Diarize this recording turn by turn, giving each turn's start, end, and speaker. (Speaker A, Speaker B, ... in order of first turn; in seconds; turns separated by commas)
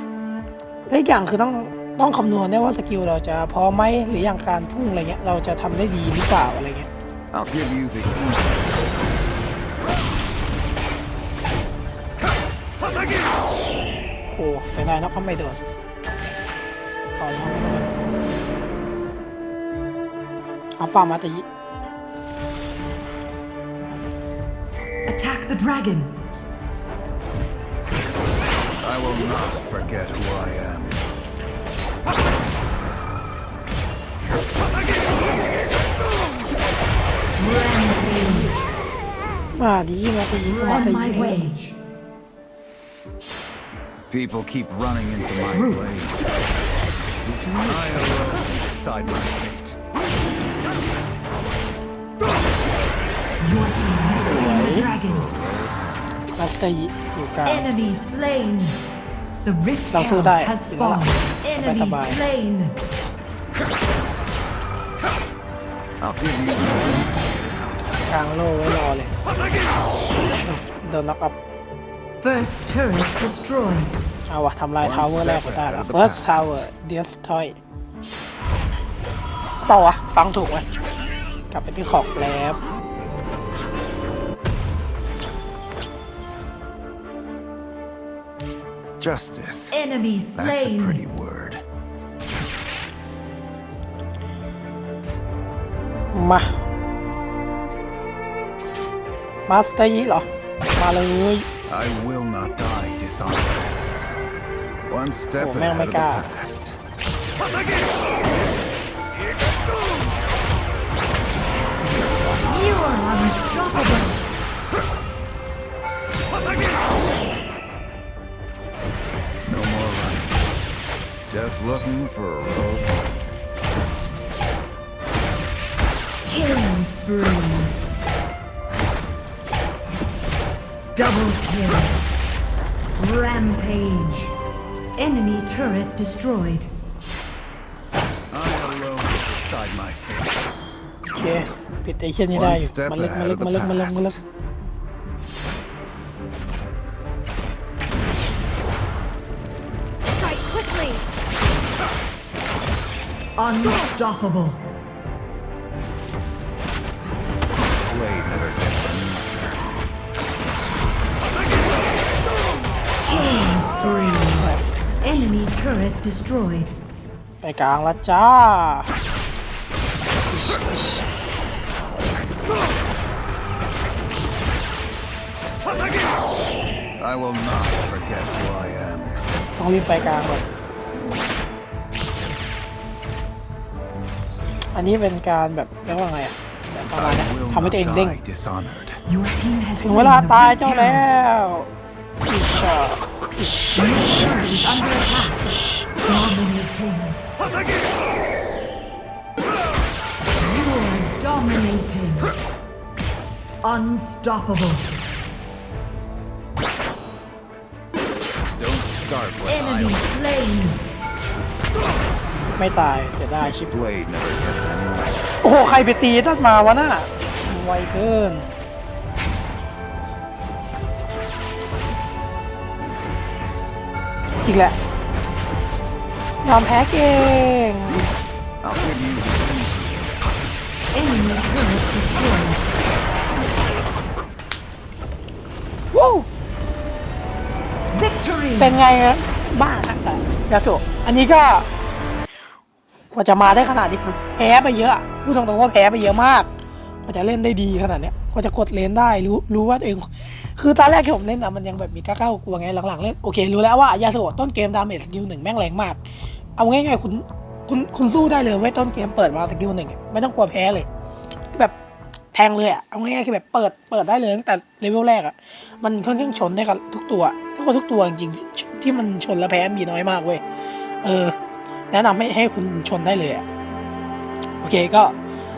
Speaker A: 0.9-6.9, Speaker B: 7.3-8.9, Speaker A: 14.3-15.6, Speaker A: 17.2-17.9, Speaker A: 20.8-21.4, Speaker C: 25.1-26.1, Speaker B: 28.8-31.0, Speaker C: 37.4-38.6, Speaker A: 39.5-41.5, Speaker C: 40.4-41.8, Speaker B: 44.1-46.3, Speaker C: 45.5-45.9, Speaker B: 47.3-49.8, Speaker C: 53.4-55.3, Speaker A: 54.1-54.9, Speaker B: 54.2-56.0, Speaker A: 56.4-57.7, Speaker C: 57.5-58.8, Speaker C: 59.4-62.8, Speaker A: 59.9-61.0, Speaker A: 61.6-62.2, Speaker B: 66.0-67.9, Speaker A: 68.1-69.1, Speaker A: 70.3-71.4, Speaker C: 72.2-73.9, Speaker A: 74.3-77.6, Speaker B: 74.8-76.6, Speaker A: 79.6-80.7, Speaker A: 81.5-82.6, Speaker B: 89.0-89.8, Speaker C: 89.7-91.0, Speaker B: 90.3-91.6, Speaker A: 96.1-96.5, Speaker A: 99.5-101.5, Speaker B: 101.7-103.8, Speaker B: 104.9-106.8, Speaker A: 105.4-106.3, Speaker B: 112.0-112.3, Speaker C: 112.5-114.2, Speaker B: 119.5-120.4, Speaker B: 121.3-123.1, Speaker C: 126.3-127.8, Speaker C: 130.9-132.0, Speaker C: 133.0-134.3, Speaker C: 135.0-136.7, Speaker B: 138.3-140.5, Speaker A: 141.1-144.2, Speaker B: 142.3-144.2, Speaker C: 150.4-151.0, Speaker C: 153.4-154.6, Speaker B: 157.8-159.7, Speaker C: 163.1-164.5, Speaker B: 163.1-164.3, Speaker C: 165.0-166.7, Speaker A: 167.4-168.9, Speaker A: 170.3-171.1, Speaker B: 177.0-179.2, Speaker A: 179.6-180.4, Speaker A: 184.7-188.2, Speaker B: 186.9-189.0, Speaker C: 189.1-191.1, Speaker A: 189.8-191.7, Speaker A: 192.3-193.6, Speaker C: 193.7-195.5, Speaker C: 196.1-197.2, Speaker C: 200.4-202.3, Speaker C: 203.6-204.9, Speaker B: 208.5-210.1, Speaker C: 209.5-210.8, Speaker A: 212.5-213.7, Speaker B: 213.4-215.2, Speaker A: 215.4-218.5, Speaker A: 224.4-224.8, Speaker A: 226.4-228.1, Speaker B: 228.6-230.2, Speaker C: 230.9-232.6, Speaker A: 235.9-236.3, Speaker C: 237.9-238.8, Speaker A: 238.6-241.7, Speaker A: 243.1-246.5, Speaker A: 247.1-256.0, Speaker A: 256.6-260.9, Speaker A: 262.3-270.4, Speaker A: 271.0-271.4, Speaker A: 271.9-273.4, Speaker A: 274.6-275.1